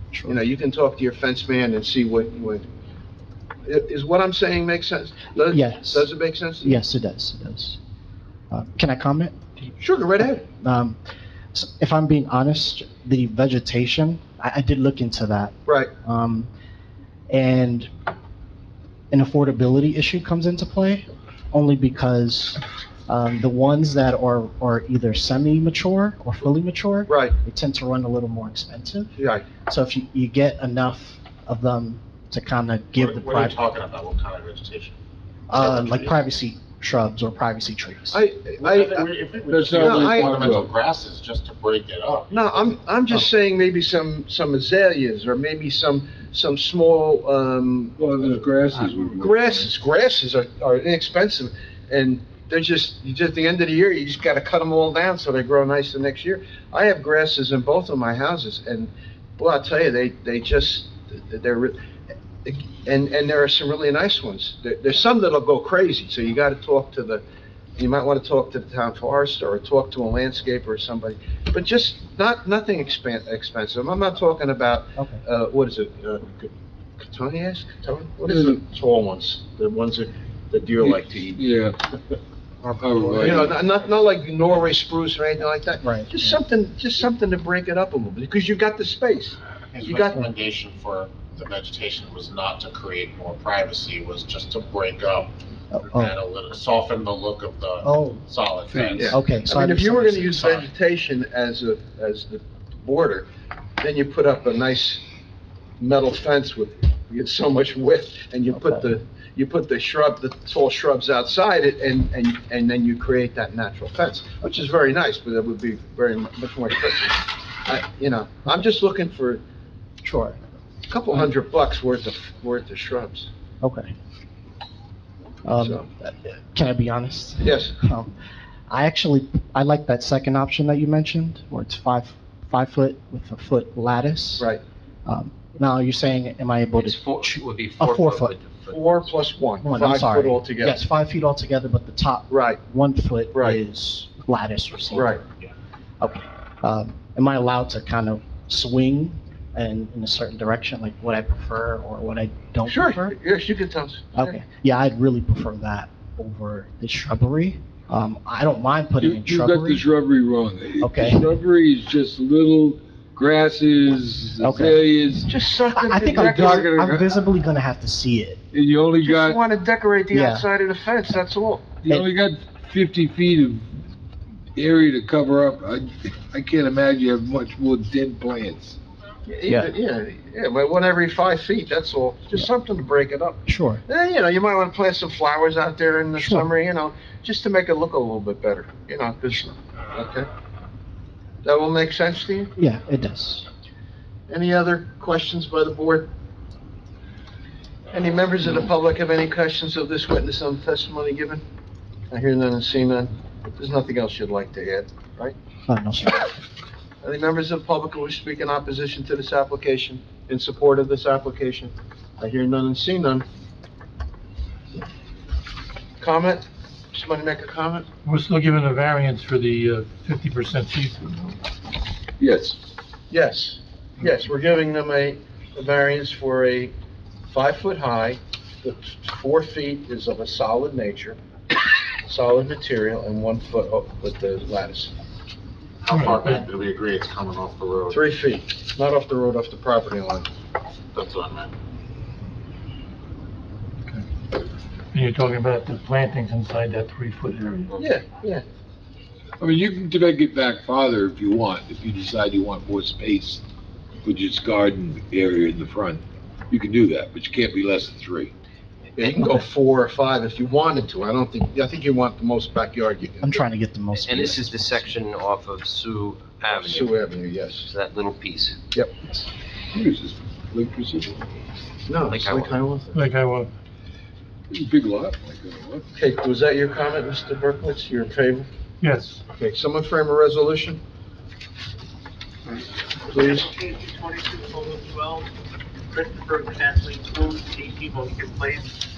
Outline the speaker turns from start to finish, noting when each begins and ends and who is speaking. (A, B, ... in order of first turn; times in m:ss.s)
0:00.3-0:02.7 A
0:03.6-0:06.8 A
0:05.5-0:06.1 B
0:06.6-0:07.8 B
0:08.5-0:09.4 B
0:09.8-0:10.4 A
0:10.2-0:11.0 B
0:11.5-0:16.5 B
0:17.3-0:17.9 B
0:19.1-0:33.6 B
0:27.1-0:27.4 A
0:29.2-0:29.5 A
0:33.0-0:35.0 C
0:35.5-0:38.2 B
0:35.6-0:36.1 C
0:38.1-0:39.1 A
0:38.6-0:42.7 C
0:39.5-0:40.7 D
0:39.7-0:40.6 A
0:42.3-0:48.0 A
0:48.0-0:49.6 D
0:49.2-1:01.8 A
1:02.4-1:07.2 A
1:07.8-1:21.4 A
1:15.0-1:15.2 B
1:18.2-1:18.6 D
1:20.8-1:21.8 D
1:22.7-1:23.5 D
1:23.1-1:30.3 A
1:25.8-1:26.4 B
1:29.7-1:39.2 C
1:35.7-1:36.2 B
1:37.8-1:38.2 B
1:38.7-1:39.0 D
1:39.0-1:43.3 A
1:39.1-1:40.7 B
1:43.8-1:45.0 A
1:45.8-1:59.4 A
2:00.0-2:00.4 B
2:00.9-2:03.3 A
2:03.6-2:03.9 B
2:05.4-2:08.1 B
2:05.6-2:05.8 A
2:07.4-2:07.8 A
2:08.7-2:14.5 B
2:15.1-2:18.3 B
2:16.8-2:19.0 E
2:18.7-2:20.8 A
2:19.6-2:25.2 B
2:22.3-2:22.6 A
2:23.3-2:23.6 A
2:24.9-2:25.2 A
2:26.0-2:33.2 B
2:32.7-2:34.4 A
2:34.2-2:39.9 B
2:39.0-2:45.3 D
2:40.8-2:41.3 B
2:44.4-2:44.9 B
2:45.3-2:46.7 A
2:45.8-2:48.4 B
2:45.9-2:47.1 D
2:48.5-2:49.4 D
2:49.0-2:51.6 A
2:50.1-2:50.5 B
2:51.8-2:53.7 D
2:54.6-2:58.8 D
2:59.3-3:10.3 A
3:03.5-3:03.8 B
3:06.2-3:06.5 B
3:11.4-3:12.5 A
3:12.6-3:13.4 B
3:14.3-3:16.1 A
3:17.9-3:21.4 A
3:22.1-3:25.4 A
3:25.7-3:26.3 B
3:27.0-3:33.3 A
3:36.0-3:37.9 A
3:38.0-3:41.3 F
3:42.2-3:42.6 D
3:43.1-3:46.7 A
3:47.3-3:51.2 A
3:52.1-3:54.9 A
3:55.8-3:58.0 C
3:55.9-3:56.4 F
3:57.9-4:00.3 A
4:00.9-4:01.5 C
4:04.9-4:07.8 F
4:07.8-4:08.4 A
4:09.4-4:13.4 D
4:14.0-4:18.3 D
4:19.0-4:23.4 A
4:23.2-4:24.9 B
4:23.9-4:26.9 E
4:26.5-4:27.7 A
4:27.6-4:28.6 E
4:29.7-4:31.2 D
4:31.9-4:33.0 A
4:32.1-4:32.6 E
4:33.0-4:33.5 F
4:34.5-4:35.8 D
4:35.9-4:38.5 A
4:38.8-4:39.2 F
4:39.3-4:40.8 A
4:43.1-4:43.5 A
4:43.1-4:45.3 G
4:45.9-4:48.7 G